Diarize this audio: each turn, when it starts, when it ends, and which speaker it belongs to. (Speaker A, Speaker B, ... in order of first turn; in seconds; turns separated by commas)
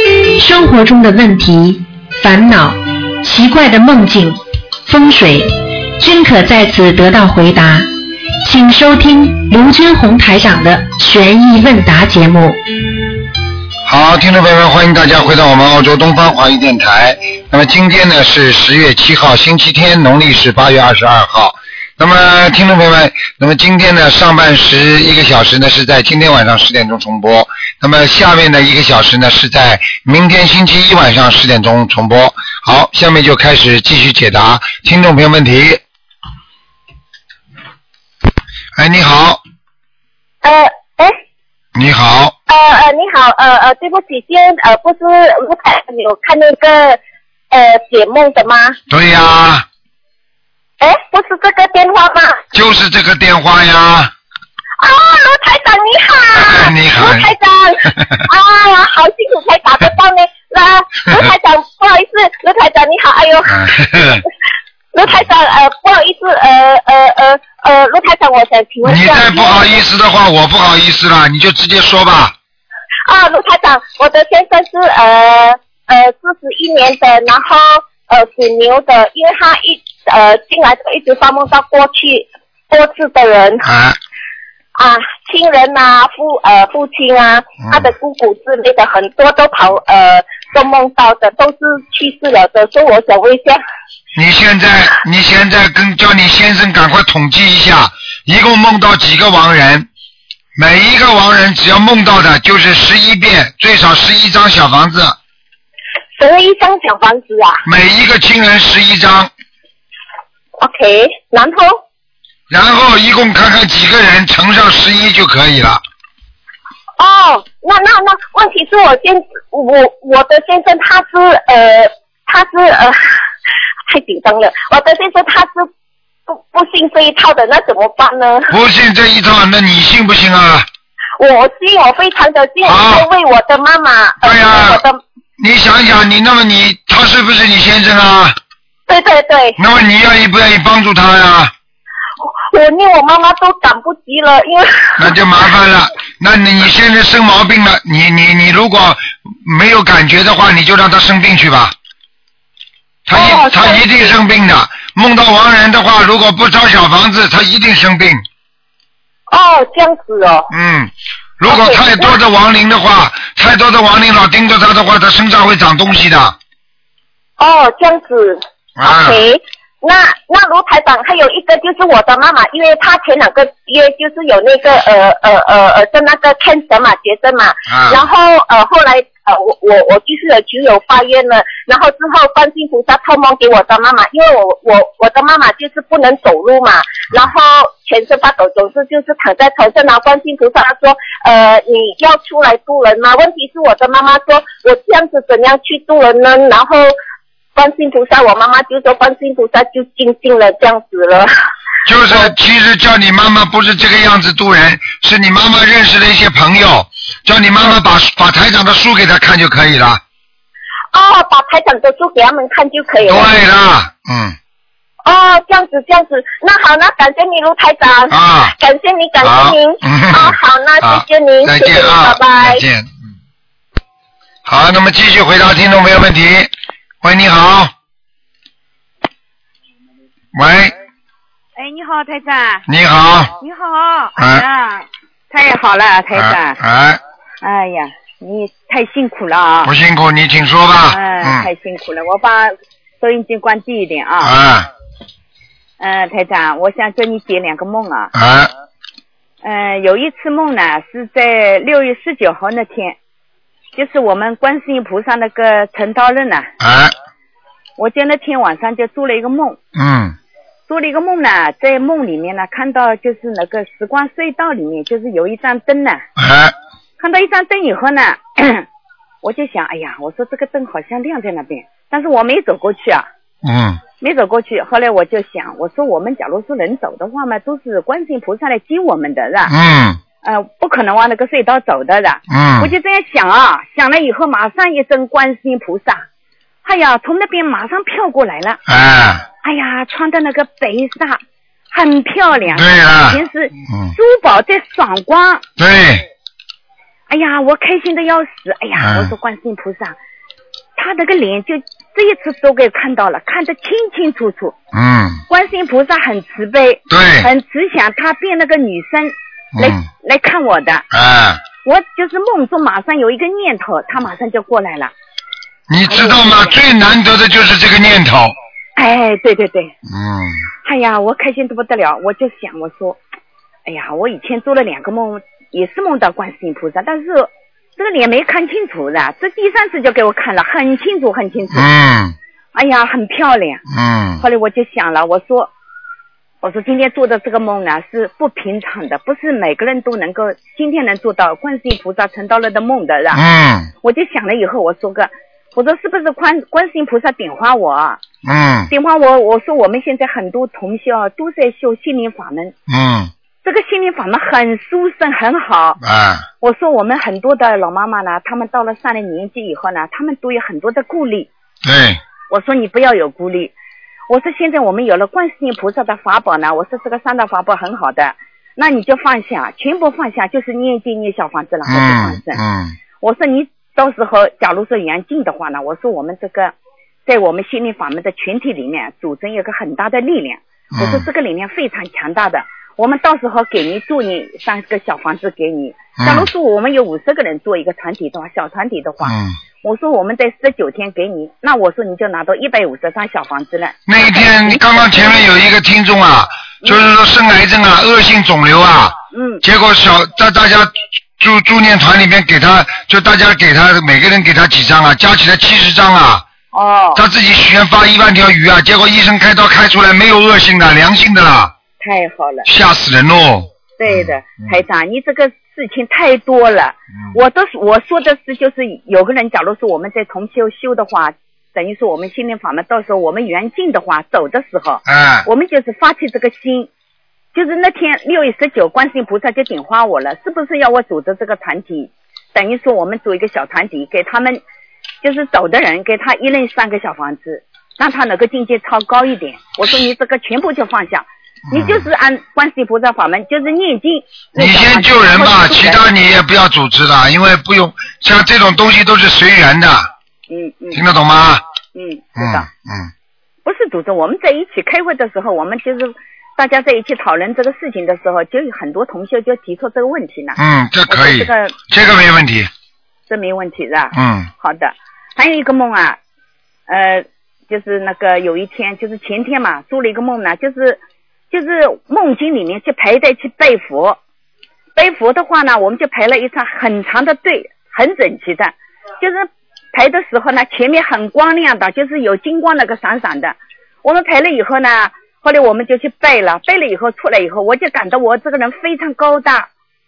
Speaker A: 0.4-7.9, Speaker A: 8.4-12.6, Speaker B: 13.8-35.8, Speaker B: 38.8-39.4, Speaker C: 40.4-41.2, Speaker B: 41.8-42.3, Speaker C: 42.5-47.0, Speaker C: 47.5-48.8, Speaker B: 48.9-49.6, Speaker C: 50.8-52.4, Speaker B: 52.5-54.1, Speaker C: 54.8-64.2, Speaker B: 56.3-57.3, Speaker B: 57.9-58.2, Speaker B: 63.5-64.2, Speaker C: 64.9-69.8, Speaker B: 68.8-72.3, Speaker C: 73.1-83.7, Speaker B: 83.6-84.0, Speaker C: 84.8-93.6, Speaker B: 94.1-99.9, Speaker B: 100.5-105.2, Speaker C: 106.2-107.6, Speaker B: 107.6-109.3, Speaker C: 110.6-111.8, Speaker B: 112.5-115.8, Speaker C: 117.0-123.2, Speaker C: 123.9-125.7, Speaker C: 126.3-128.6, Speaker B: 128.5-130.7, Speaker C: 131.2-135.0, Speaker B: 132.6-133.1, Speaker B: 134.2-134.8, Speaker B: 135.4-138.3, Speaker C: 138.9-139.6, Speaker B: 139.6-141.5, Speaker C: 142.5-145.1, Speaker B: 145.0-151.8, Speaker B: 153.1-158.2, Speaker C: 153.1-153.8, Speaker C: 159.3-160.5, Speaker B: 160.5-166.3, Speaker C: 161.5-162.1, Speaker C: 167.4-196.9, Speaker B: 168.8-169.2, Speaker B: 177.7-178.0, Speaker C: 197.5-201.3, Speaker B: 201.8-210.0, Speaker C: 210.9-213.3, Speaker B: 213.0-214.3, Speaker C: 215.0-222.6, Speaker B: 218.1-218.6, Speaker B: 219.2-222.9, Speaker B: 224.5-226.5, Speaker B: 227.0-227.7, Speaker B: 230.3-230.7, Speaker D: 231.6-232.7, Speaker B: 232.7-233.3, Speaker D: 233.4-236.6, Speaker B: 234.2-234.4, Speaker B: 236.1-237.0, Speaker D: 237.4-239.7, Speaker B: 239.6-241.5, Speaker D: 240.9-244.3, Speaker B: 244.2-244.7, Speaker D: 245.8-248.1, Speaker B: 248.1-248.5, Speaker D: 249.4-253.0, Speaker D: 253.8-256.5, Speaker B: 256.6-256.9, Speaker D: 257.8-259.6, Speaker B: 259.7-260.1, Speaker D: 260.7-266.1, Speaker B: 266.2-266.5, Speaker D: 267.0-268.6, Speaker D: 269.2-273.1, Speaker B: 273.4-273.8, Speaker D: 274.0-279.5, Speaker B: 279.4-280.0, Speaker D: 280.2-286.0, Speaker B: 282.3-282.7, Speaker D: 286.6-288.6, Speaker B: 288.7-289.2, Speaker D: 289.4-291.2, Speaker D: 291.7-295.4, Speaker B: 292.5-293.9, Speaker B: 295.6-296.0, Speaker D: 297.1-299.9, Speaker B: 298.8-299.1, Speaker D: 300.8-304.6, Speaker B: 304.7-305.2, Speaker D: 305.3-310.9, Speaker B: 306.9-307.3, Speaker B: 309.6-309.8, Speaker B: 310.9-311.4, Speaker D: 311.6-314.9, Speaker B: 315.7-318.3, Speaker D: 315.9-316.5, Speaker D: 318.8-319.7, Speaker B: 319.9-320.5, Speaker D: 320.6-323.0, Speaker D: 323.6-331.7, Speaker B: 331.5-332.1, Speaker D: 332.5-333.6, Speaker B: 333.7-334.2, Speaker D: 334.2-335.5, Speaker D: 336.4-343.2, Speaker B: 343.1-343.7, Speaker D: 343.8-348.0, Speaker B: 348.2-348.7, Speaker D: 348.7-352.5, Speaker B: 352.7-353.1, Speaker D: 353.4-355.8, Speaker B: 355.8-356.2, Speaker D: 356.4-361.3, Speaker B: 361.6-362.0, Speaker D: 362.3-363.5, Speaker D: 364.1-372.4, Speaker B: 371.6-372.8, Speaker D: 373.0-376.5, Speaker D: 377.1-395.3, Speaker B: 380.7-381.1, Speaker B: 386.0-386.3, Speaker B: 389.0-389.4, Speaker B: 393.9-406.2, Speaker D: 399.1-399.4, Speaker D: 406.5-407.0, Speaker B: 406.9-411.5, Speaker D: 411.8-412.5, Speaker B: 412.4-414.6, Speaker D: 413.8-426.7, Speaker B: 424.9-425.3, Speaker D: 427.3-434.4, Speaker D: 435.0-445.8, Speaker B: 441.5-441.8, Speaker B: 444.4-449.9, Speaker D: 450.3-450.8, Speaker B: 450.7-451.4, Speaker D: 451.7-452.5, Speaker B: 452.2-452.9, Speaker D: 453.4-461.6, Speaker B: 460.4-462.5, Speaker D: 463.1-466.0, Speaker B: 463.9-464.3, Speaker D: 466.7-474.0, Speaker D: 474.7-489.5